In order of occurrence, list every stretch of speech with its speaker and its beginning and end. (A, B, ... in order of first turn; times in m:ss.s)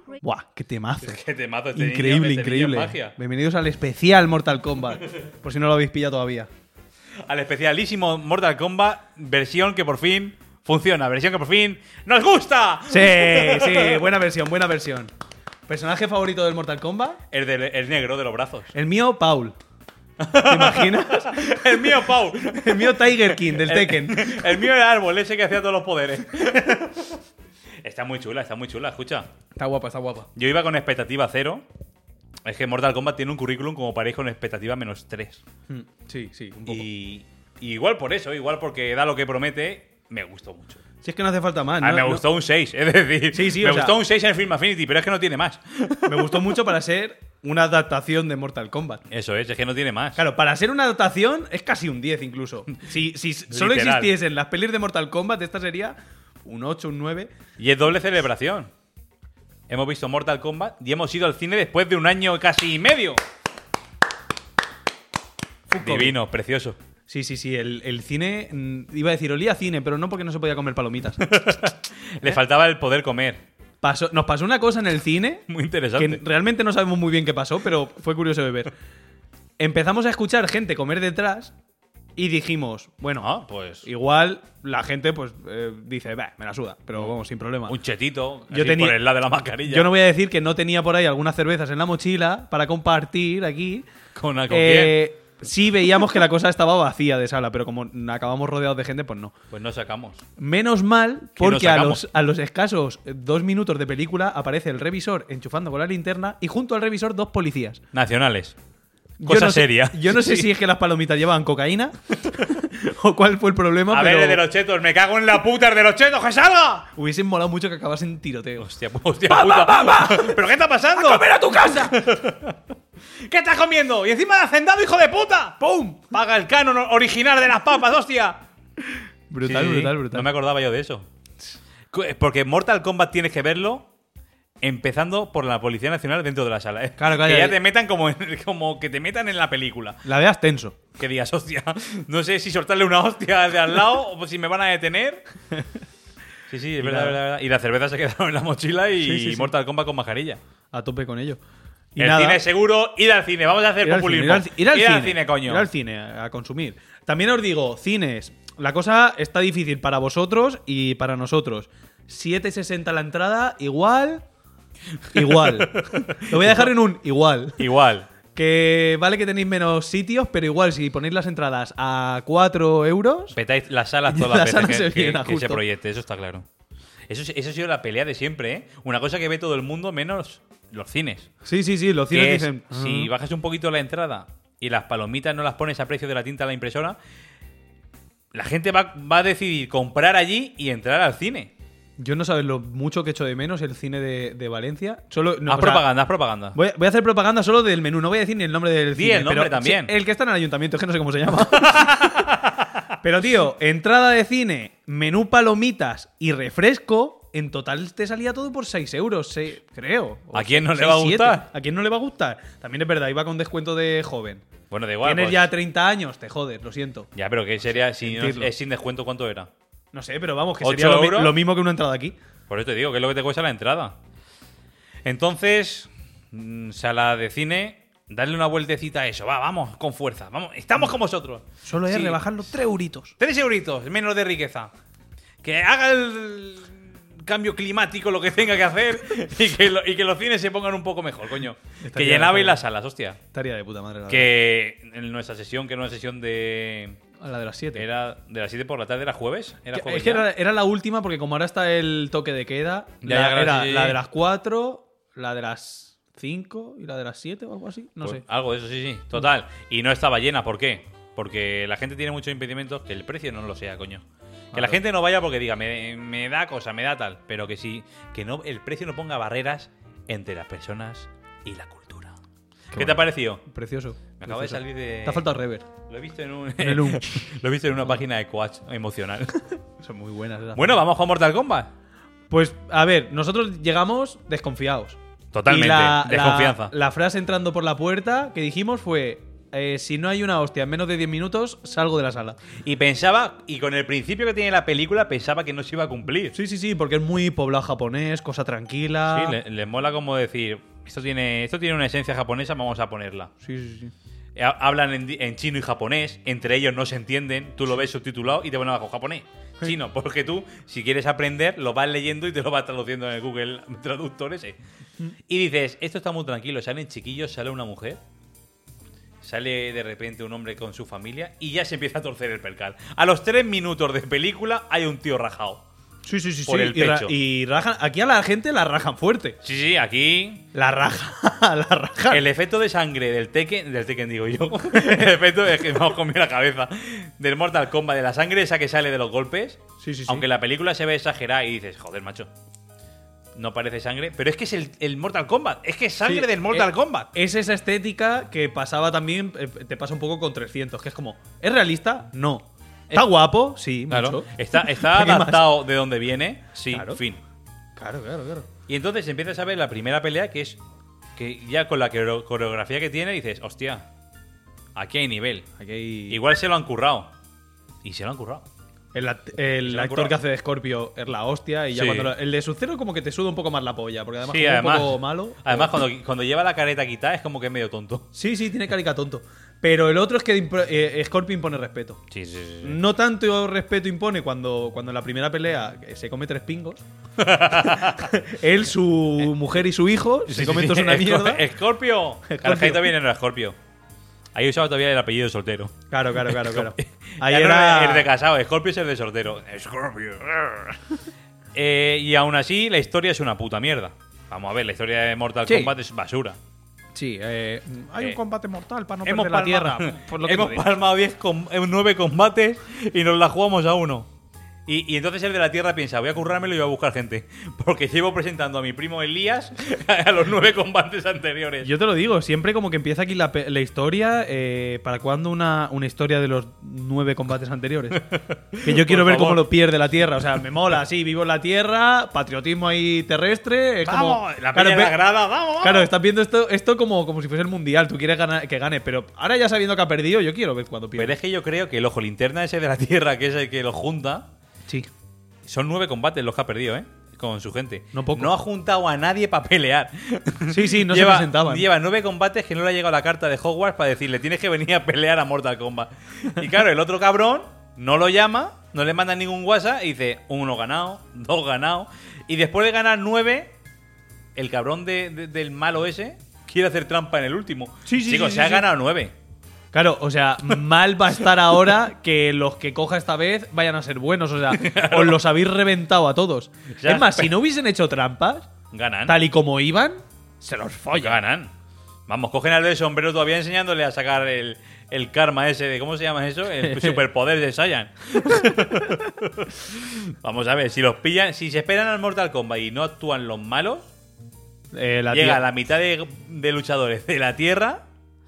0:00.2-0:01.2 A
0:01.0-0:03.1 B
0:01.7-0:06.5 A
0:07.2-0:14.1 B
0:12.9-0:15.1 A
0:15.7-0:17.2 A
0:17.3-0:18.7 B
0:18.7-0:19.6 A
0:20.2-0:27.2 B
0:20.4-0:24.5 A
0:27.8-0:29.3 B
0:29.6-0:30.3 A
0:30.4-0:31.6 B
0:32.4-0:35.4 B
0:35.7-0:36.8 A
0:36.7-0:40.8 B
0:41.0-0:42.2 A
0:41.8-0:46.7 B
0:43.3-0:44.0 A
0:46.0-0:49.0 A
0:49.1-0:50.2 B
0:50.2-0:57.3 A
0:53.5-0:54.2 B
0:57.6-0:58.7 B
0:59.7-1:03.2 B
1:05.7-1:06.2 A
1:05.8-1:06.8 B
1:07.1-1:11.2 A
1:11.2-1:13.4 B
1:13.8-1:18.7 A
1:15.5-1:16.2 B
1:19.6-1:21.5 A
1:22.2-1:23.3 A
1:23.2-1:23.9 B
1:23.8-1:27.8 A
1:27.7-1:29.9 B
1:28.5-1:29.0 A
1:29.6-1:33.9 A
1:34.1-1:35.0 B
1:34.5-1:39.3 A
1:39.5-1:40.2 B
1:40.4-1:47.8 A
1:41.4-1:42.0 B
1:47.9-1:48.6 B
1:49.2-1:54.4 A
1:49.2-1:50.5 B
1:53.9-1:56.9 B
1:56.9-1:58.6 A
1:58.6-2:02.6 B
1:59.3-2:00.4 A
2:00.9-2:02.0 A
2:03.2-2:08.4 B
2:05.6-2:06.0 A
2:09.3-2:10.3 A
2:09.4-2:11.1 B
2:11.9-2:13.9 B
2:14.6-2:20.0 B
2:17.0-2:17.6 A
2:20.0-2:20.8 A
2:21.0-2:25.2 B
2:26.5-2:30.4 B
2:26.8-2:27.2 A
2:29.0-2:29.5 A
2:30.7-2:31.4 A
2:32.0-2:32.4 A
2:32.0-2:35.7 B
2:33.8-2:44.2 A
2:45.1-2:46.7 B
2:45.1-2:47.7 A
2:47.6-2:48.1 B
2:48.3-2:53.4 A
2:53.3-2:56.4 B
2:54.0-2:55.6 A
2:57.1-3:01.3 B
3:01.4-3:03.1 A
3:02.1-3:07.0 B
3:08.3-3:11.5 B
3:12.0-3:15.8 A
3:15.5-3:16.6 B
3:16.5-3:22.3 A
3:18.9-3:19.9 B
3:21.4-3:22.7 B
3:23.0-3:34.4 A
3:30.3-3:31.5 B
3:34.7-3:35.5 B
3:35.0-3:37.1 A
3:37.1-3:39.5 B
3:38.0-3:38.5 A
3:39.9-3:42.2 A
3:40.6-3:41.4 B
3:42.5-3:44.0 B
3:45.0-3:52.2 B
3:51.6-3:53.1 A
3:53.2-3:54.7 B
3:55.4-4:03.2 B
4:01.8-4:02.6 A
4:03.3-4:04.3 A
4:04.1-4:07.0 B
4:07.2-4:07.8 A
4:07.7-4:10.3 B
4:09.7-4:18.2 A
4:13.0-4:14.0 B
4:18.0-4:32.2 B
4:24.5-4:24.8 A
4:32.7-4:33.4 B
4:32.7-4:35.7 A
4:34.2-4:35.3 B
4:35.9-4:39.6 B
4:36.6-4:37.1 A
4:39.8-4:40.7 A
4:40.5-4:41.7 B
4:42.3-4:52.4 A
4:45.3-4:46.7 B
4:52.6-4:56.3 B
4:56.3-4:59.4 A
4:59.1-5:03.3 B
5:03.4-5:03.9 A
5:04.4-5:14.6 B
5:15.3-5:18.0 B
5:19.2-5:25.6 B
5:26.0-5:29.4 A
5:26.4-5:27.1 B
5:29.4-5:30.4 B
5:30.5-5:32.2 A
5:32.1-5:42.3 B
5:39.8-5:40.3 A
5:43.3-5:47.1 B
5:46.0-5:55.5 A
5:53.9-5:57.2 B
5:56.7-5:57.0 A
5:57.8-5:58.5 A
5:58.7-6:00.6 B
6:01.2-6:03.8 B
6:04.7-6:05.5 B
6:05.6-6:06.2 A
6:06.1-6:07.1 B
6:07.8-6:08.5 B
6:08.9-6:15.7 A
6:09.6-6:10.2 B
6:11.7-6:12.1 B
6:14.2-6:18.1 B
6:18.1-6:22.0 A
6:22.1-6:22.8 B
6:22.6-6:26.8 A
6:27.2-6:28.1 B
6:27.5-6:31.4 A
6:30.2-6:33.6 B
6:32.3-6:33.0 A
6:34.3-6:40.8 B
6:35.9-6:38.1 A
6:41.5-6:46.4 B
6:45.4-6:45.7 A
6:46.9-6:50.7 A
6:49.0-6:54.1 B
6:54.6-7:01.7 B
7:01.6-7:15.0 A
7:08.1-7:09.5 B
7:13.8-7:15.9 B
7:15.6-7:21.1 A
7:20.9-7:24.3 B
7:25.4-7:43.6 B
7:27.9-7:28.3 A
7:30.5-7:31.7 A
7:44.4-7:49.1 B
7:47.8-7:48.7 A
7:49.7-7:58.5 A
7:54.5-7:55.2 B
7:56.7-7:57.3 B
7:58.7-7:59.2 B
7:59.0-8:01.2 A
8:00.9-8:01.5 B
8:02.1-8:13.9 B
8:06.6-8:07.0 A
8:14.7-8:15.4 A
8:15.1-8:17.8 B